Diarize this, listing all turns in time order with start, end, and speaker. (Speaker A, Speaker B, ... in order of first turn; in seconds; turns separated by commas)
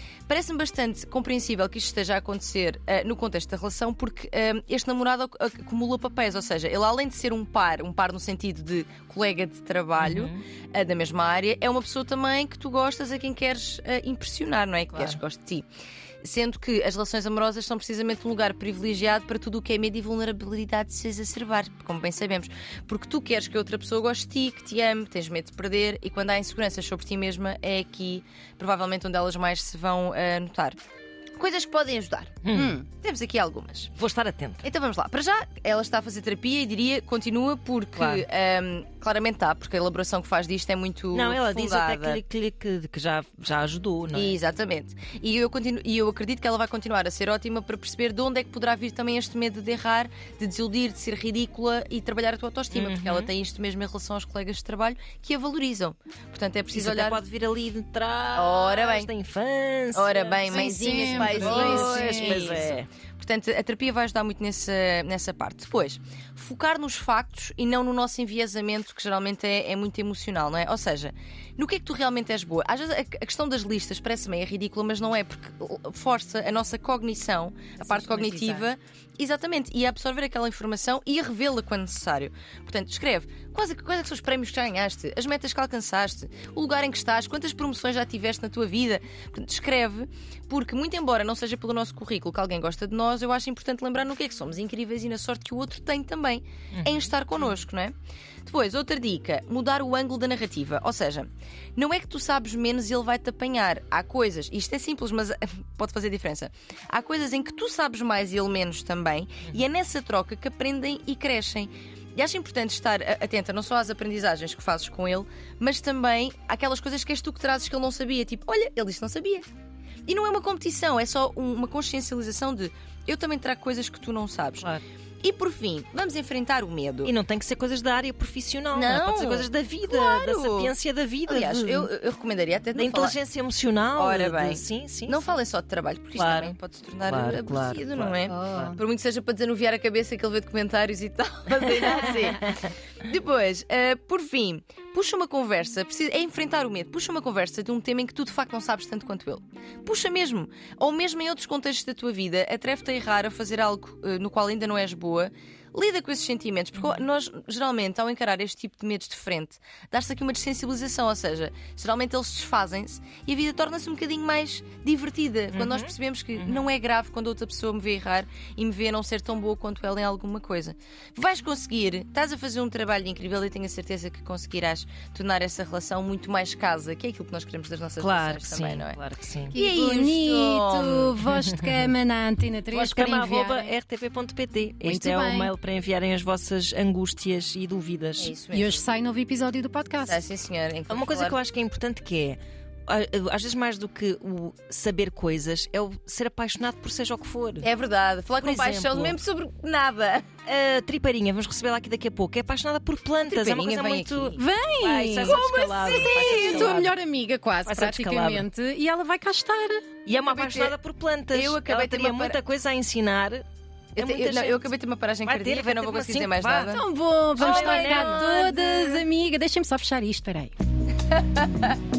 Speaker A: 0.3-15.7, Speaker B: 10.0-10.4, Speaker B: 14.9-15.2, Speaker A: 16.2-30.8, Speaker A: 31.4-32.4, Speaker B: 32.4-32.8, Speaker C: 32.5-32.8, Speaker A: 33.0-33.9, Speaker B: 34.0-34.6, Speaker A: 34.6-42.2, Speaker B: 37.9-38.2, Speaker B: 41.1-44.3, Speaker A: 44.1-57.2, Speaker B: 52.7-53.3, Speaker B: 56.7-62.9, Speaker A: 58.3-59.1, Speaker A: 59.9-119.5, Speaker C: 60.5-62.6, Speaker C: 77.8-78.7, Speaker B: 96.7-97.1, Speaker A: 120.0-124.7, Speaker A: 125.2-127.1, Speaker B: 127.0-131.9, Speaker A: 128.7-130.7, Speaker A: 131.3-133.2, Speaker B: 132.7-135.2, Speaker A: 133.9-142.5, Speaker B: 136.2-138.7, Speaker C: 138.2-138.8, Speaker A: 143.1-179.0, Speaker B: 165.5-166.7, Speaker B: 178.0-179.5, Speaker C: 179.5-183.8, Speaker A: 179.5-181.1, Speaker B: 182.7-188.3, Speaker C: 184.8-185.5, Speaker A: 188.2-188.8, Speaker C: 188.5-190.2, Speaker A: 190.1-191.4, Speaker B: 190.9-197.7, Speaker A: 197.6-200.3, Speaker B: 198.4-199.2, Speaker B: 200.4-206.9, Speaker A: 203.2-204.4, Speaker C: 204.3-209.9, Speaker A: 205.2-206.9, Speaker B: 207.6-208.5, Speaker B: 210.1-213.4, Speaker A: 210.2-210.8, Speaker A: 211.3-212.4, Speaker A: 213.9-216.8, Speaker B: 214.0-214.7, Speaker B: 215.2-216.8, Speaker C: 216.7-220.6, Speaker B: 217.3-218.4, Speaker A: 217.4-219.0, Speaker A: 221.1-221.7